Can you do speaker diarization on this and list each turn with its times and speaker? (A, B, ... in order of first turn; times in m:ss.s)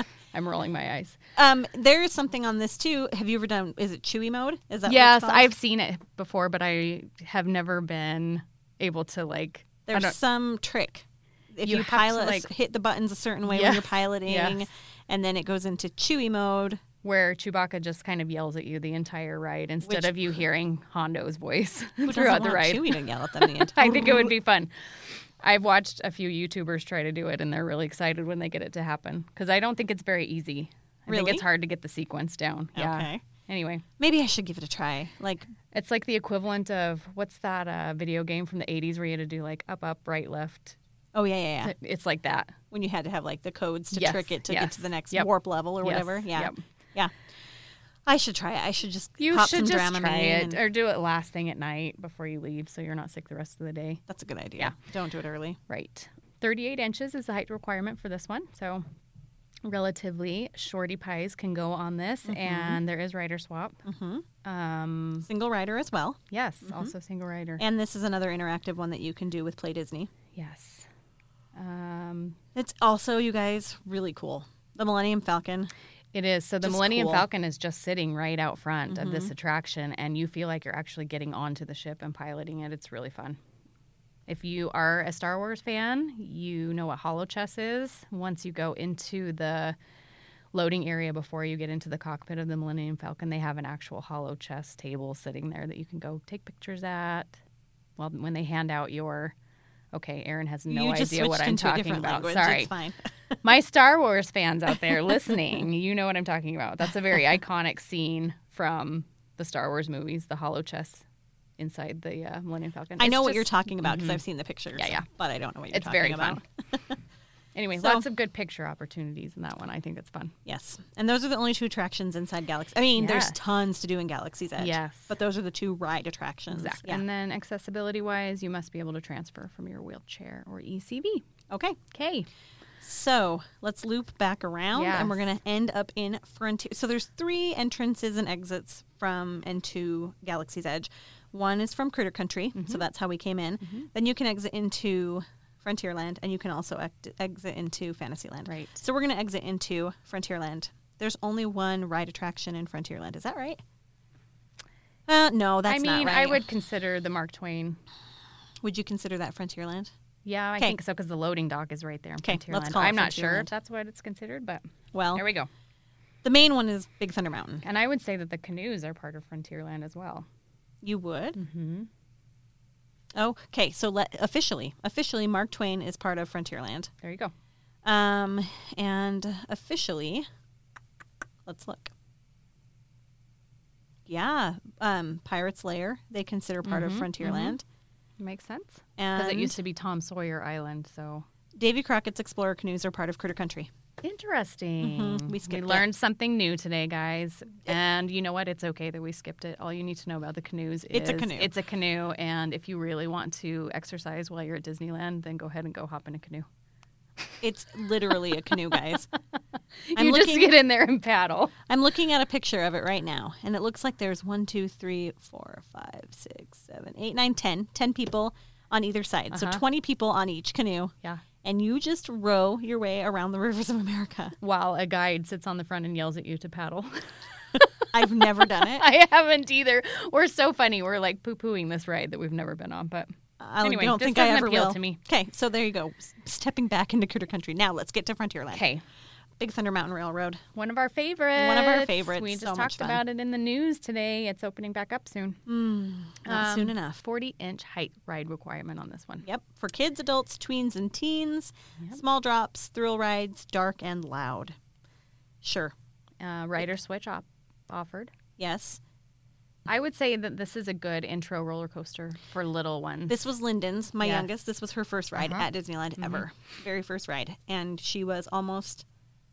0:00.3-0:01.2 A
0:01.4-0:05.5 B
0:04.9-0:10.2 A
0:09.9-0:16.8 B
0:11.6-0:12.5 A
0:13.5-0:14.6 A
0:17.0-0:33.8 A
0:19.8-0:20.3 B
0:22.1-0:24.3 B
0:31.1-0:31.5 B
0:32.8-0:33.2 B
0:34.0-0:35.5 B
0:35.7-0:40.8 A
0:41.1-0:41.7 B
0:41.6-0:42.6 A
0:42.7-0:47.1 B
0:43.9-0:45.3 A
0:45.8-0:46.6 A
0:48.1-0:50.6 B
0:49.2-0:54.0 A
0:54.1-0:55.6 B
0:55.7-0:58.8 A
0:59.6-1:03.8 A
1:02.3-1:02.8 B
1:03.8-1:04.3 B
1:04.4-1:05.3 A
1:05.2-1:06.9 B
1:06.3-1:07.6 A
1:07.6-1:10.1 B
1:10.4-1:10.9 A
1:11.6-1:12.4 A
1:12.6-1:15.7 B
1:16.1-1:23.4 A
1:16.6-1:17.3 B
1:18.9-1:19.3 B
1:24.3-1:29.8 A
1:30.5-1:37.3 A
1:38.0-1:39.3 A
1:39.9-1:42.7 A
1:40.7-1:43.1 B
1:43.4-1:51.0 A
1:44.9-1:45.3 B
1:51.6-1:54.2 A
1:53.0-1:57.0 B
1:54.8-1:55.0 A
1:55.7-1:56.4 A
1:57.6-2:00.4 A
1:57.8-1:58.0 B
2:00.5-2:07.0 B
2:03.0-2:03.4 A
2:04.6-2:05.1 A
2:06.5-2:11.3 A
2:11.5-2:11.8 B
2:11.9-2:12.3 A
2:12.8-2:33.6 B
2:14.7-2:15.2 A
2:22.6-2:22.8 A
2:28.5-2:28.8 A
2:35.1-2:36.4 B
2:35.7-2:37.8 A
2:38.6-2:39.9 B
2:40.2-2:44.6 A
2:42.2-2:43.5 B
2:44.9-2:45.2 B
2:45.2-2:45.5 A
2:46.2-2:47.6 B
2:47.6-2:50.3 A
2:50.8-2:51.4 B
2:51.4-2:51.9 A
2:53.2-2:56.9 B
2:57.0-2:57.3 A
2:57.8-3:00.3 B
3:01.5-3:01.9 B
3:04.1-3:07.6 B
3:06.6-3:07.6 A
3:08.2-3:11.3 A
3:09.0-3:09.6 B
3:11.6-3:13.7 B
3:14.0-3:26.5 A
3:14.8-3:15.9 B
3:20.9-3:21.5 B
3:27.4-3:29.1 B
3:29.9-3:31.6 A
3:30.0-3:30.5 B
3:31.7-3:44.4 B
3:39.3-3:39.6 A
3:44.4-3:53.1 A
3:47.9-3:48.9 B
3:53.4-3:58.6 B
3:53.6-3:55.0 A
3:58.5-3:58.8 A
3:59.4-4:00.4 B
4:00.6-4:05.4 A
4:01.4-4:03.0 B
4:05.5-4:07.0 B
4:06.3-4:09.3 A
4:09.2-4:14.6 B
4:15.4-4:15.7 B
4:16.2-4:18.1 A
4:18.4-4:18.8 B
4:19.7-4:23.2 A
4:23.1-4:28.8 B
4:24.0-4:24.3 A
4:25.2-4:25.5 A
4:26.0-4:26.2 A